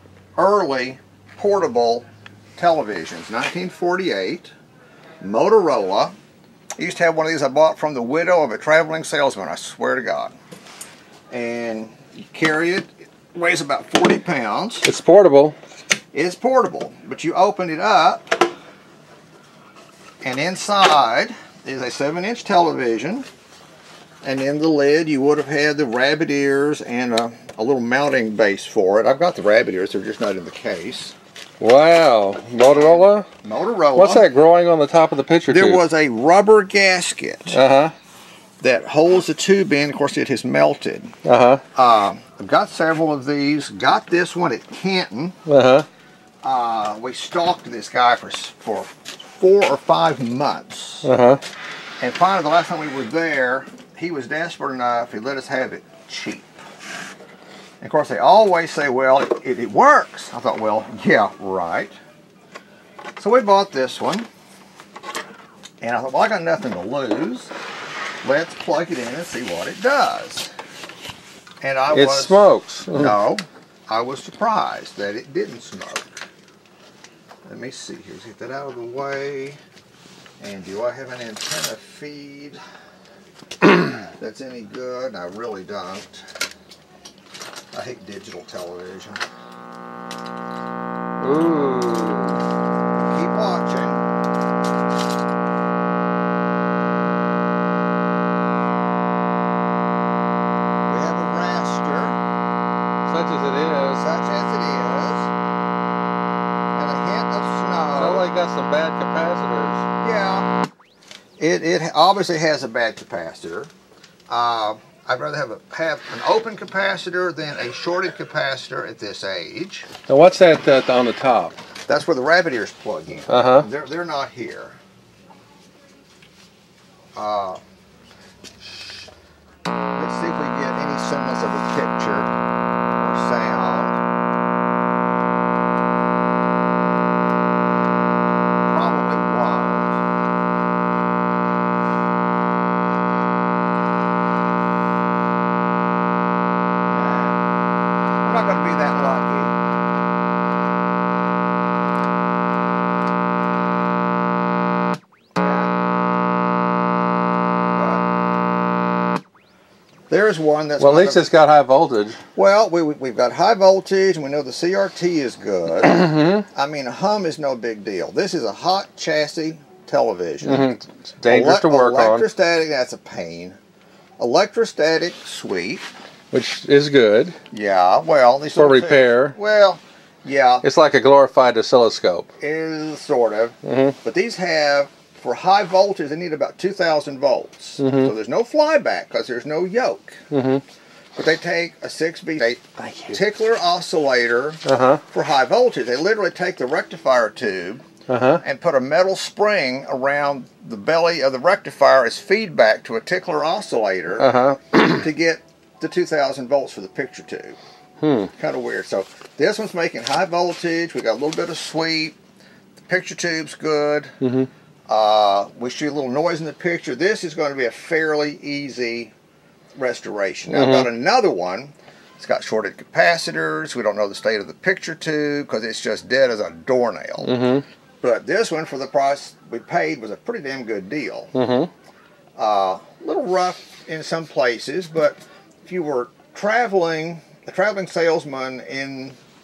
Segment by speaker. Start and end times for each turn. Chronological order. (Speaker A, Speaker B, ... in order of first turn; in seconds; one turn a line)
Speaker A: 0.4-4.5
Speaker A: 5.2-6.2
Speaker A: 6.8-10.3
Speaker A: 11.3-14.9
Speaker B: 14.8-15.6
Speaker A: 16.1-18.5
Speaker A: 20.2-23.3
Speaker A: 24.2-31.2
Speaker B: 31.6-33.3
Speaker A: 32.6-34.2
Speaker B: 34.0-35.8
Speaker A: 35.5-37.6
Speaker B: 37.5-37.9
Speaker A: 38.6-41.1
Speaker B: 41.2-41.6
Speaker A: 41.7-45.4
Speaker B: 45.5-45.9
Speaker A: 46.4-51.1
Speaker B: 51.0-51.4
Speaker A: 52.0-56.5
Speaker A: 57.8-61.9
Speaker A: 63.2-64.3
Speaker A: 65.8-67.5
Speaker A: 68.2-70.5
Speaker A: 71.6-76.3
Speaker B: 71.9-73.1
Speaker A: 77.5-79.6
Speaker A: 80.4-82.6
Speaker A: 84.0-86.3
Speaker A: 87.7-89.2
Speaker B: 91.2-92.4
Speaker A: 92.9-94.0
Speaker A: 100.9-102.2
Speaker B: 103.1-104.0
Speaker A: 103.9-105.3
Speaker A: 106.7-108.3
Speaker B: 108.0-109.9
Speaker A: 110.0-110.5
Speaker A: 111.4-113.7
Speaker A: 114.3-119.9
Speaker B: 120.1-121.6
Speaker A: 121.9-124.8
Speaker B: 123.3-123.7
Speaker A: 127.2-127.6
Speaker A: 128.6-129.1
Speaker A: 129.9-132.3
Speaker A: 133.0-134.0
Speaker A: 138.7-140.0
Speaker A: 146.9-147.4
Speaker A: 148.2-149.6
Speaker A: 155.4-155.7
Speaker A: 157.7-158.1
Speaker A: 160.1-161.3
Speaker B: 160.8-162.2
Speaker A: 162.3-170.7
Speaker B: 165.8-166.4
Speaker B: 170.4-172.3
Speaker A: 171.3-173.6
Speaker A: 174.2-175.9
Speaker B: 176.3-177.4
Speaker A: 177.5-180.7
Speaker B: 178.6-179.3
Speaker B: 180.6-182.3
Speaker A: 182.4-190.2
Speaker B: 183.6-184.0
Speaker B: 187.8-188.1
Speaker B: 190.3-190.6
Speaker A: 191.2-197.8
Speaker B: 192.8-193.2
Speaker B: 194.7-195.0
Speaker B: 198.1-198.4
Speaker A: 198.4-207.6
Speaker B: 204.2-205.1
Speaker B: 208.0-208.3
Speaker A: 208.3-212.2
Speaker A: 212.8-214.1
Speaker B: 214.2-214.5
Speaker A: 214.9-219.1
Speaker A: 219.8-227.4
Speaker B: 220.5-220.9
Speaker B: 227.2-227.6
Speaker A: 228.0-231.3
Speaker B: 231.3-231.7
Speaker A: 232.4-239.2